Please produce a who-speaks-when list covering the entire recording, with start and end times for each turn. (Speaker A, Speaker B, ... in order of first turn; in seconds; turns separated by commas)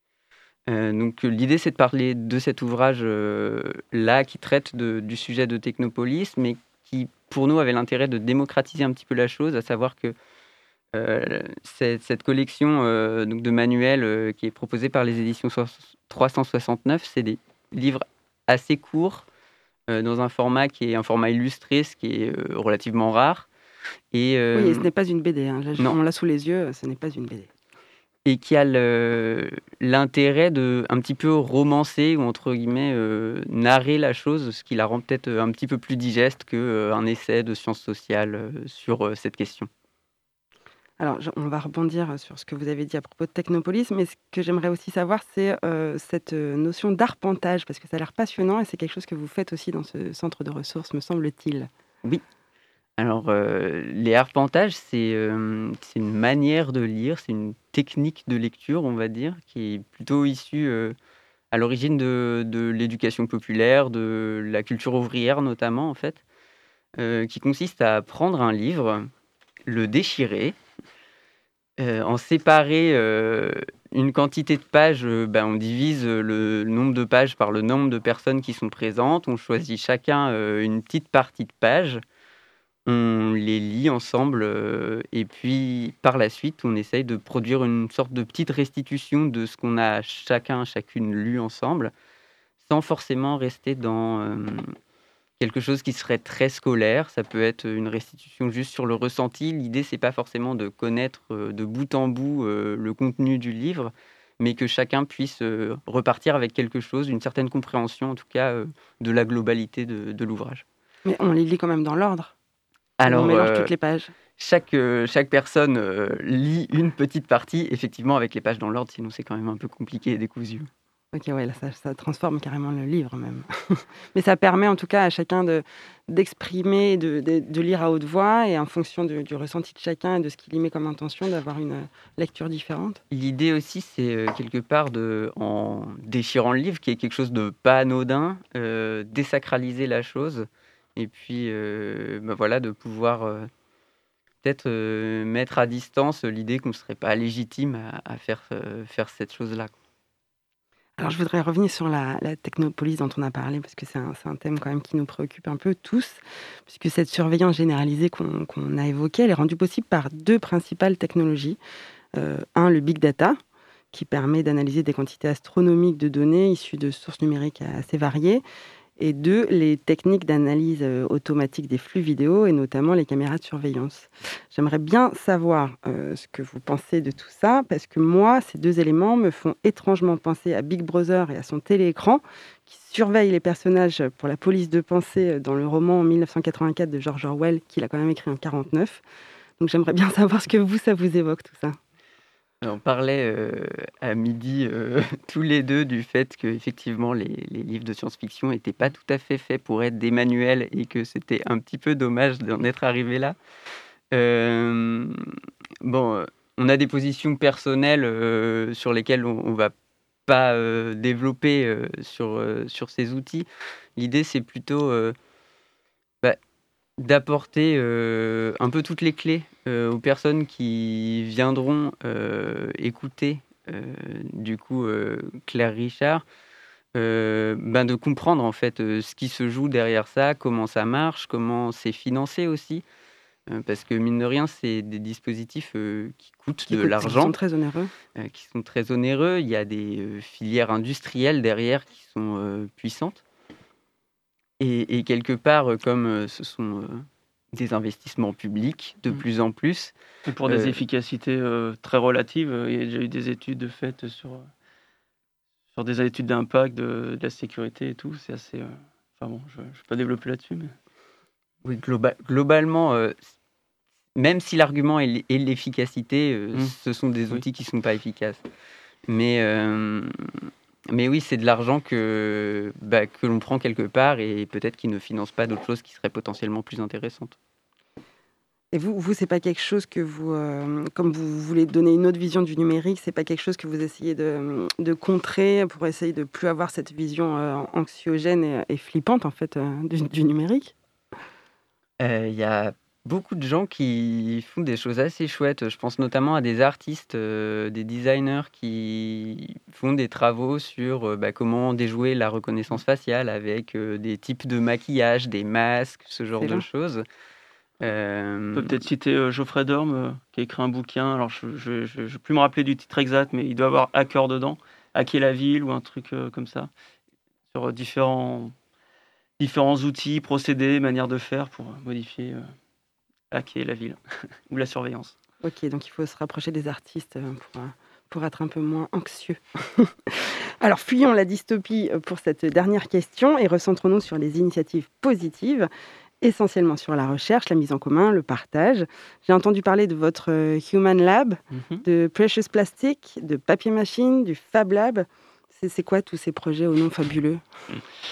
Speaker A: 0.7-10.2, Speaker A: 10.9-19.3, Speaker A: 19.9-23.5, Speaker A: 24.1-24.9, Speaker B: 24.5-27.5, Speaker A: 28.2-39.7, Speaker B: 41.0-51.7, Speaker A: 53.0-61.0, Speaker A: 61.5-66.2, Speaker A: 67.0-69.1, Speaker A: 69.7-70.6, Speaker A: 71.8-82.0, Speaker A: 82.9-91.9, Speaker A: 92.7-94.8, Speaker A: 95.4-110.6, Speaker B: 111.1-112.3, Speaker A: 113.0-113.7, Speaker B: 113.0-114.1, Speaker A: 114.4-120.7, Speaker B: 121.1-133.0, Speaker A: 133.1-143.5, Speaker A: 144.4-149.7, Speaker B: 151.0-161.6, Speaker B: 162.1-163.4, Speaker B: 163.9-168.4, Speaker B: 169.0-189.0, Speaker B: 189.6-191.8, Speaker A: 192.6-203.4, Speaker A: 204.1-209.7, Speaker A: 210.3-215.2, Speaker A: 217.0-226.2, Speaker A: 226.9-232.8, Speaker A: 233.5-237.3, Speaker B: 236.7-237.9, Speaker A: 238.2-243.2, Speaker A: 244.6-249.9, Speaker C: 250.3-254.5, Speaker A: 250.5-250.8, Speaker C: 255.7-260.8, Speaker A: 261.6-263.3, Speaker A: 264.2-268.4, Speaker A: 269.1-277.4, Speaker B: 278.7-290.8, Speaker A: 292.0-307.1, Speaker B: 306.4-306.6, Speaker A: 307.8-308.8, Speaker C: 308.5-316.7, Speaker C: 317.5-318.5, Speaker C: 319.4-322.5, Speaker C: 323.3-324.0, Speaker C: 324.5-325.1, Speaker B: 325.4-335.7, Speaker B: 336.2-347.4, Speaker C: 341.5-341.8